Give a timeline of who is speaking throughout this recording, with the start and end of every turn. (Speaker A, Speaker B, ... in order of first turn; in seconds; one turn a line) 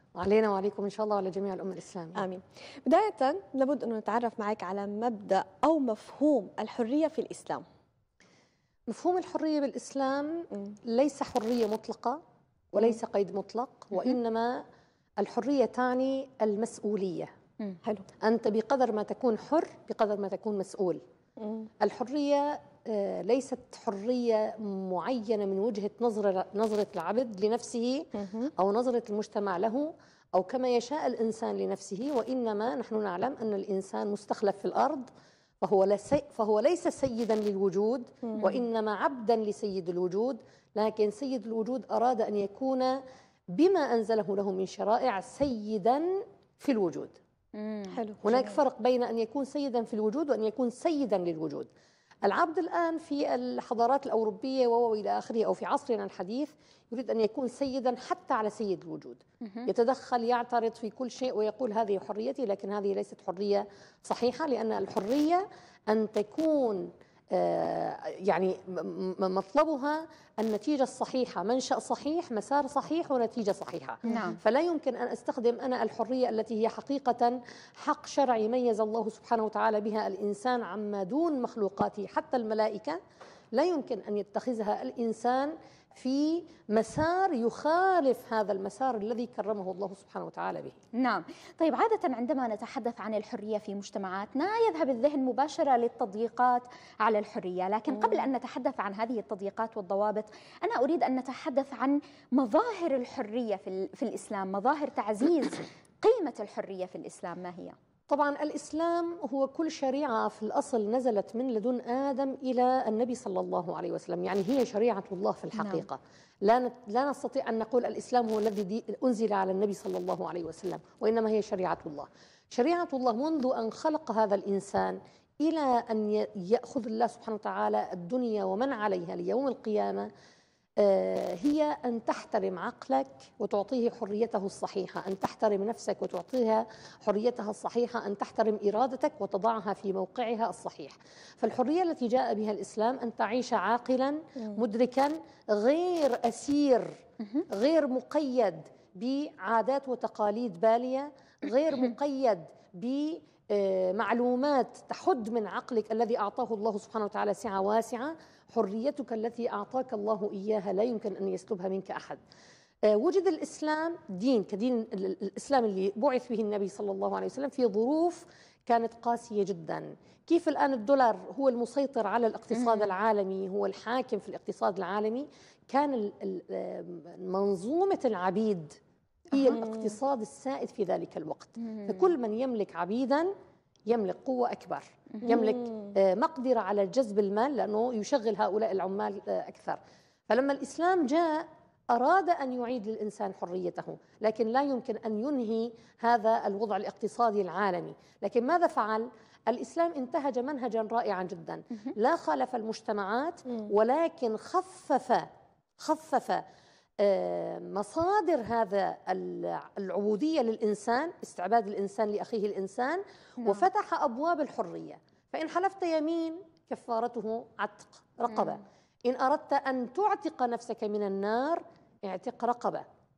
Speaker A: 0.2-2.3
Speaker B: 2.2-7.6
Speaker A: 8.9-12.2
Speaker A: 12.7-14.6
Speaker A: 15.2-17.3
Speaker A: 18.2-21.0
Speaker B: 21.4-21.7
Speaker A: 21.8-35.1
Speaker B: 28.2-28.5
Speaker A: 35.6-43.0
Speaker A: 43.5-47.1
Speaker C: 47.5-48.0
Speaker B: 47.9-48.5
Speaker A: 48.2-51.7
Speaker A: 52.2-83.0
Speaker C: 74.1-74.4
Speaker A: 83.5-90.8
Speaker C: 91.0-107.8
Speaker A: 108.1-130.1
Speaker C: 115.6-115.9
Speaker A: 130.8-146.9
Speaker A: 147.5-162.2
Speaker A: 162.9-178.8
Speaker A: 179.3-183.3
Speaker A: 183.9-205.3
Speaker A: 205.8-206.4
Speaker A: 207.0-222.8
Speaker C: 213.4-213.7